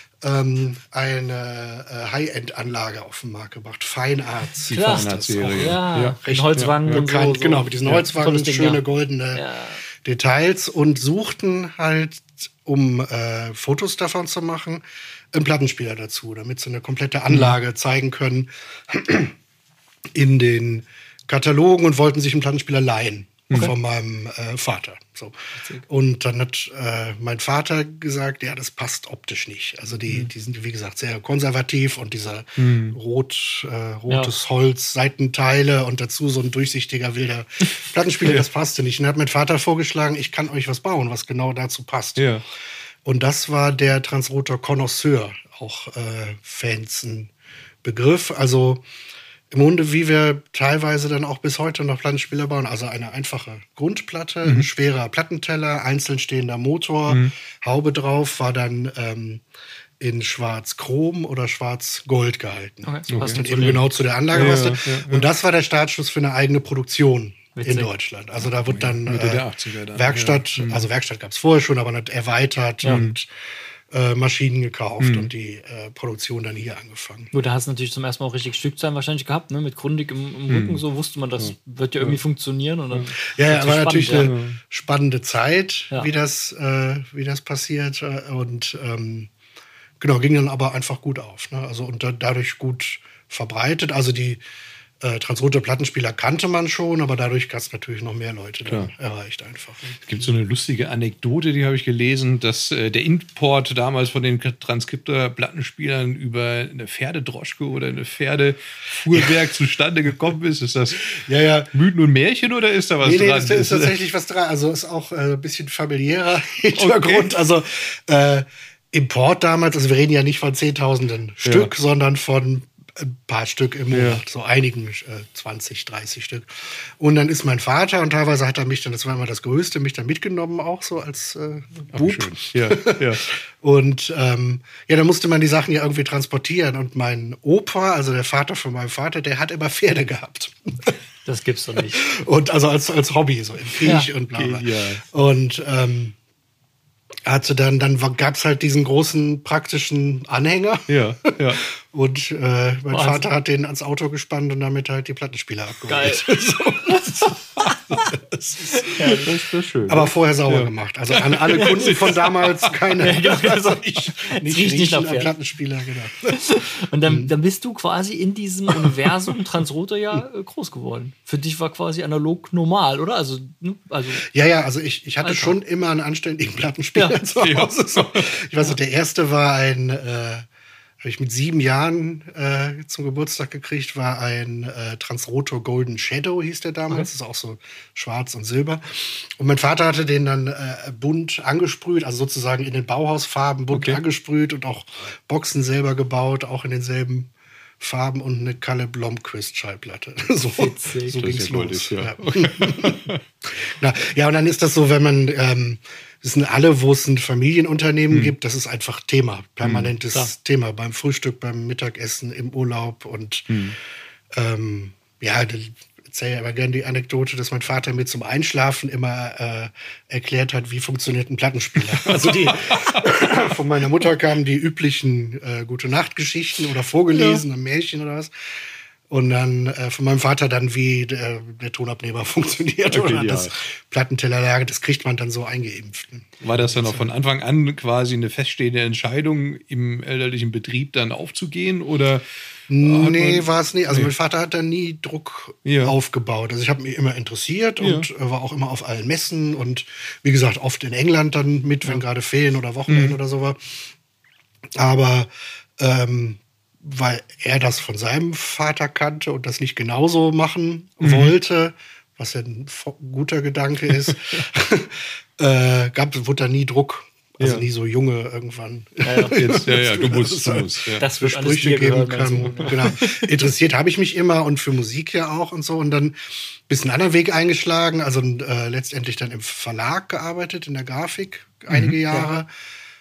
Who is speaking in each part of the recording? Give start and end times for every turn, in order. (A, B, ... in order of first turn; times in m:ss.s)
0:00.2-0:19.4 A
0:04.7-0:07.1 B
0:04.7-0:08.8 C
0:09.3-0:09.8 C
0:17.3-0:17.6 B
0:20.1-0:42.3 A
0:25.6-0:25.9 C
0:32.6-0:33.0 B
0:37.7-0:38.4 B
0:42.2-0:42.4 B
0:43.0-0:47.3 A
0:47.8-0:48.8 A
0:49.5-0:59.4 A
0:57.1-0:57.3 B
1:00.0-1:13.3 A
1:02.8-1:03.8 C
1:03.1-1:05.3 B
1:07.6-1:07.9 C
1:08.4-1:10.9 B
1:12.9-1:13.2 B
1:13.9-1:17.3 A
1:15.0-1:15.3 B
1:17.3-1:24.3 C
1:20.5-1:20.8 B
1:21.4-1:22.2 B
1:23.2-1:29.3 A
1:24.2-1:24.6 B
1:30.0-1:34.4 A
1:35.0-1:40.3 A
1:38.7-1:38.9 B
1:40.0-1:53.9 B
1:51.1-1:51.7 A
1:53.0-2:20.9 A
1:56.7-1:57.3 B
2:01.4-2:01.7 B
2:03.9-2:04.2 B
2:11.9-2:13.2 B
2:21.2-2:22.0 C
2:21.9-2:26.2 A
2:24.3-2:25.0 B
2:27.3-2:37.4 A
2:30.9-2:31.6 B
2:32.9-2:33.2 C
2:35.9-2:36.3 C
2:36.8-2:38.1 C
2:38.1-2:39.2 A
2:38.7-2:39.3 C
2:39.0-2:42.8 B
2:39.9-2:46.4 A
2:43.0-2:45.3 C
2:46.3-2:54.3 C
2:47.0-2:47.3 A
2:54.2-3:00.5 A
2:55.2-2:55.6 C
2:57.4-2:58.3 B
3:01.0-3:33.6 A
3:13.7-3:14.0 B
3:20.5-3:21.2 C
3:21.2-3:23.2 B
3:29.6-3:29.9 B
3:33.5-3:33.8 B
3:34.3-3:48.3 A
3:42.0-3:43.0 B
3:49.1-3:57.1 A
3:52.9-3:53.5 B
3:56.4-4:04.1 B
4:02.7-4:13.8 A
4:05.6-4:06.0 B
4:07.8-4:08.1 B
4:12.9-4:13.2 B
4:14.8-4:42.5 A
4:21.0-4:21.4 B
4:23.9-4:24.4 B
4:27.4-4:27.7 B
4:29.0-4:29.4 C
4:29.4-4:31.0 B
4:31.0-4:33.2 C
4:32.6-4:33.0 B
4:41.7-4:42.0 B